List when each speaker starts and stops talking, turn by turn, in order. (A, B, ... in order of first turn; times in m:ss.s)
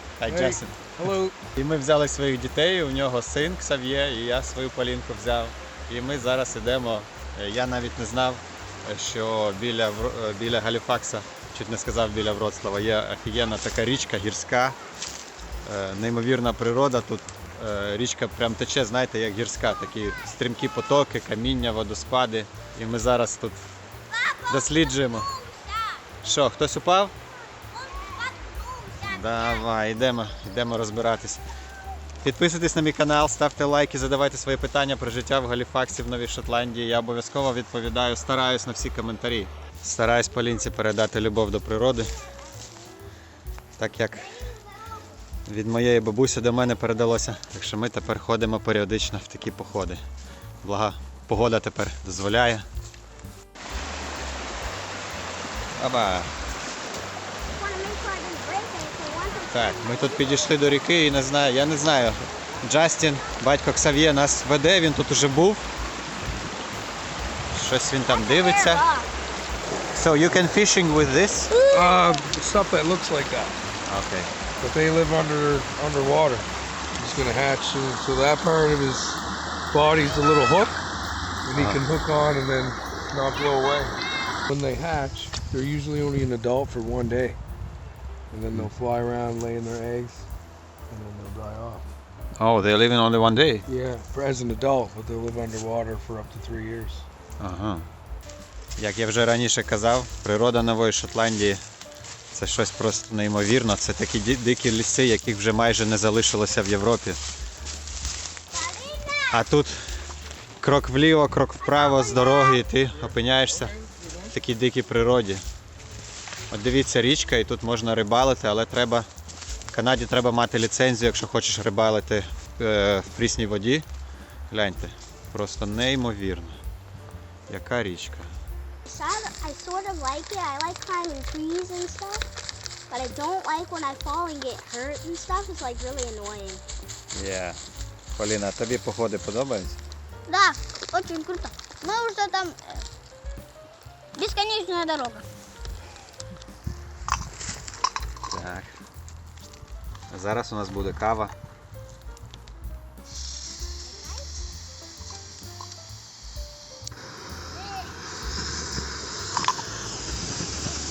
0:00.2-0:00.9 A
0:00.2-0:01.4 B
0:01.5-0:14.8 A
0:15.6-0:23.6 A
0:24.1-0:26.0 C
0:24.5-0:25.3 A
0:26.2-0:27.1 A
0:27.7-0:29.6 C
0:29.1-0:31.4 A
0:32.2-0:42.2 A
0:43.8-0:44.3 A
0:45.4-0:50.0 A
0:50.6-0:52.6 A
0:55.8-0:56.3 A
0:57.5-1:00.5 C
0:59.5-1:05.7 A
1:07.5-1:08.8 A
1:08.1-1:09.1 C
1:09.9-1:11.5 A
1:11.6-1:11.9 C
1:11.7-1:13.6 B
1:13.8-1:14.3 A
1:14.6-1:20.8 B
1:21.4-1:23.9 B
1:21.5-1:21.8 A
1:24.5-1:27.4 B
1:28.3-1:30.3 B
1:30.9-1:31.8 B
1:32.4-1:33.6 A
1:33.6-1:37.1 B
1:37.4-1:37.9 A
1:38.8-1:41.6 A
1:42.3-1:47.2 A
1:48.5-1:49.4 C
1:49.3-1:49.8 A
1:50.6-1:53.8 A
1:51.6-1:52.6 C
1:53.7-1:54.1 B
1:54.3-1:55.4 A
1:56.5-1:59.1 A
1:59.7-2:03.8 A
2:04.5-2:06.6 A
2:07.5-2:08.3 A
2:08.8-2:12.2 C
2:12.9-2:16.6 C
2:17.1-2:17.6 A
2:18.2-2:19.8 A
2:20.3-2:22.8 C
2:24.1-2:25.2 C
2:28.3-2:28.7 A
2:30.1-2:31.3 A
2:33.8-2:34.3 C